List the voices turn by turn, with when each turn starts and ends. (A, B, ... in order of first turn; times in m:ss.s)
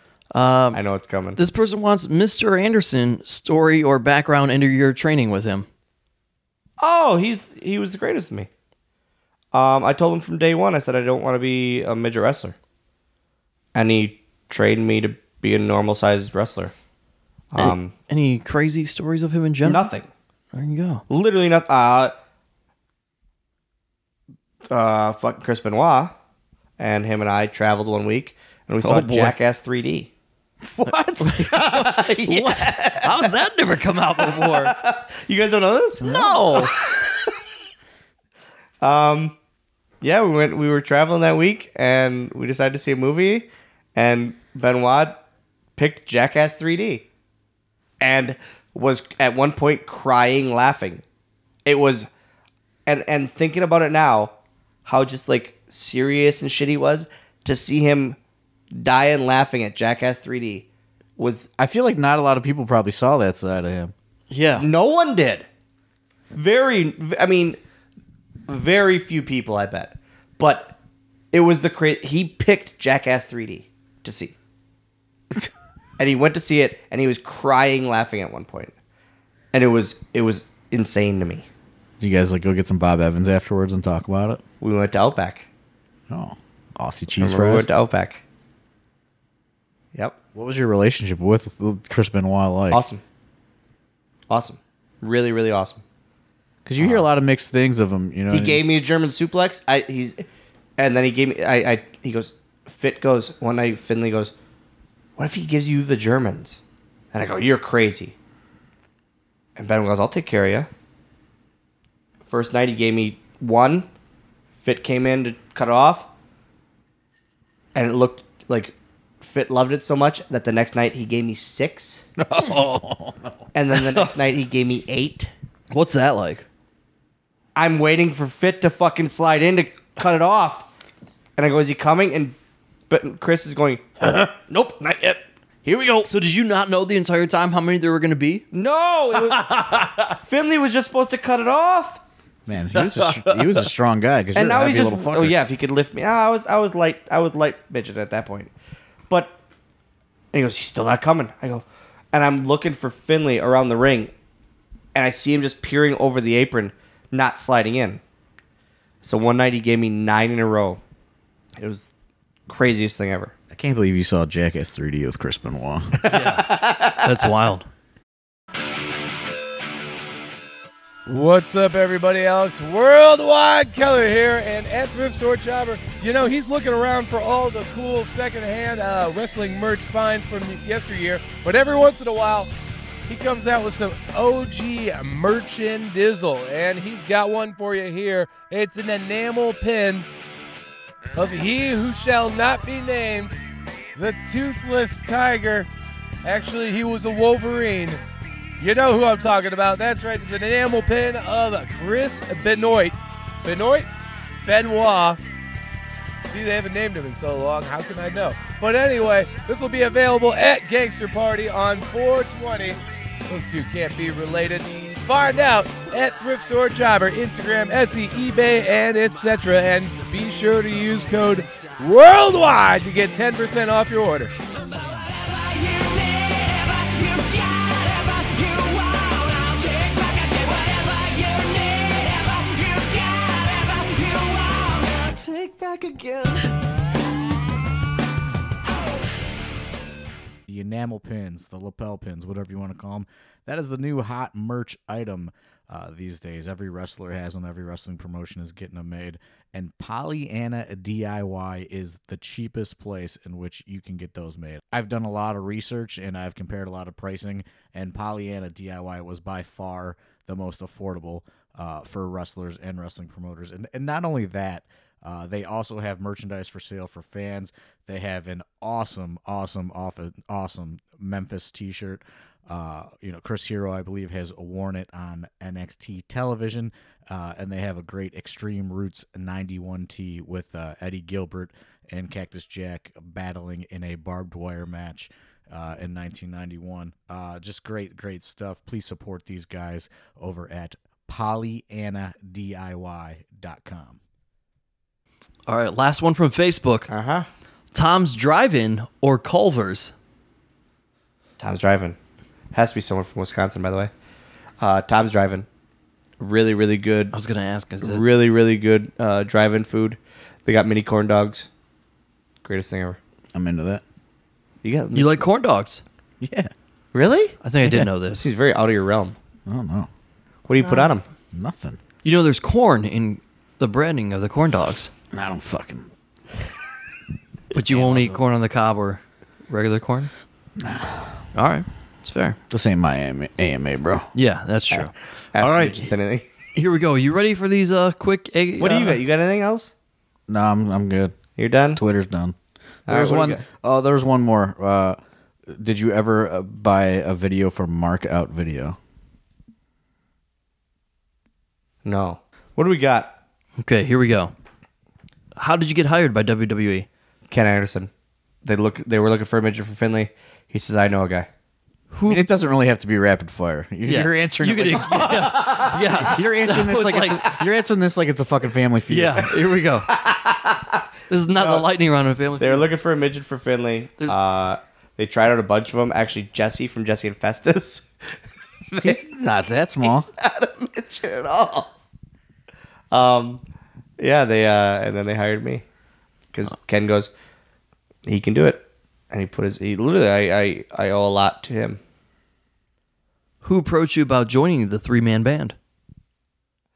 0:00.3-0:00.8 A
0:00.7-0:01.4 B
0:01.4-0:05.7 A
0:06.8-0:08.5 B
0:09.5-0:12.6 B
0:13.8-0:16.7 B
0:17.5-0:17.9 B
0:17.6-0:19.9 A
0:19.6-0:20.1 B
0:20.5-0:21.0 A
0:21.1-0:22.2 B
0:24.7-0:26.1 B
0:26.8-0:30.1 B
0:28.8-0:29.4 A
0:30.8-0:31.3 C
0:30.9-0:34.7 A
0:31.2-0:33.3 B
0:34.2-0:36.9 B
0:36.0-0:36.7 A
0:38.8-0:39.4 B
0:40.0-0:45.2 B
0:45.8-0:47.1 B
0:48.0-0:51.0 B
0:51.7-0:52.1 B
0:52.9-0:54.3 B
0:54.8-0:58.2 B
0:58.7-1:01.5 B
1:01.6-1:03.9 C
1:04.3-1:04.7 A
1:04.6-1:05.4 B
1:06.3-1:07.6 B
1:08.5-1:10.8 B
1:11.3-1:14.4 B
1:16.0-1:18.7 B
1:19.5-1:21.5 B
1:22.0-1:24.4 C
1:24.6-1:25.5 B
1:26.1-1:27.7 C
1:27.2-1:28.2 B
1:30.4-1:32.8 C
1:32.7-1:33.0 B
1:34.3-1:35.8 B
1:36.6-1:38.6 C
1:36.8-1:37.1 B
1:38.3-1:40.2 B
1:40.8-1:44.3 B
1:45.2-1:46.6 B
1:47.1-1:48.2 B
1:49.6-1:50.7 B
1:52.3-1:53.9 B
1:54.6-1:56.1 B
1:57.8-2:02.0 B
2:02.2-2:03.4 C
2:03.5-2:05.3 B
2:05.7-2:06.4 A
2:07.6-2:10.7 B
2:11.4-2:12.4 B
2:12.9-2:16.1 B
2:16.0-2:18.4 A
2:18.5-2:22.0 B
2:22.5-2:25.4 C
2:23.0-2:23.4 A
2:24.4-2:28.5 B
2:29.1-2:29.4 B
2:30.3-2:34.1 B
2:35.0-2:38.0 B
2:39.0-2:40.8 B
2:41.6-2:41.9 B
2:42.5-2:43.3 B
2:43.5-2:46.1 C
2:46.0-2:47.1 B
2:46.1-2:47.7 A
2:51.1-3:02.5 D
3:03.1-3:10.1 D
3:11.2-3:13.3 D
3:14.0-3:15.7 D
3:16.2-3:18.0 D
3:18.6-3:23.9 D
3:24.4-3:25.2 D
3:26.2-3:44.4 D
3:53.7-3:54.1 B
3:54.8-3:56.4 B
4:00.5-4:54.0 C
4:55.5-4:56.9 A
4:56.9-4:57.3 B
4:57.7-4:59.9 A
5:01.4-5:02.0 B
5:02.5-5:03.9 B
5:04.6-5:05.5 B
5:06.2-5:07.1 B
5:07.1-5:08.0 A
5:07.8-5:11.5 B
5:12.4-5:13.0 B
5:13.3-5:13.8 C
5:14.6-5:15.3 B
5:14.9-5:15.8 A
5:16.2-5:16.5 C
5:16.9-5:19.2 B
5:17.4-5:18.3 A
5:19.5-5:19.9 C
5:20.5-5:21.0 B
5:20.6-5:20.9 A
5:21.3-5:21.8 C
5:22.0-5:24.9 A
5:25.1-5:25.9 C
5:27.5-5:30.1 A
5:27.6-5:28.2 C
5:30.6-5:31.2 C
5:31.3-5:32.4 A
5:32.5-5:34.1 C
5:34.2-5:35.9 A
5:34.7-5:36.3 B
5:36.6-5:39.0 A
5:38.6-5:39.7 B
5:40.3-5:41.2 C
5:41.4-5:41.8 B
5:41.8-5:42.4 C
5:42.9-5:43.4 B
5:42.9-5:48.8 C
5:51.8-5:53.2 B
5:53.6-5:54.3 A
5:55.4-5:56.9 A
5:57.3-5:57.9 B
5:58.4-6:01.3 B
6:01.9-6:02.2 A
6:02.1-6:09.4 C
6:03.9-6:07.4 A
6:05.0-6:05.8 B
6:08.9-6:09.9 A
6:09.9-6:11.7 B
6:11.1-6:12.7 A
6:12.4-6:17.9 B
6:18.7-6:19.0 B
6:18.8-6:20.1 C
6:19.8-6:21.7 B
6:22.9-6:23.4 B
6:24.0-6:25.6 B
6:26.3-6:27.1 B
6:28.1-6:31.8 B
6:33.4-6:35.6 A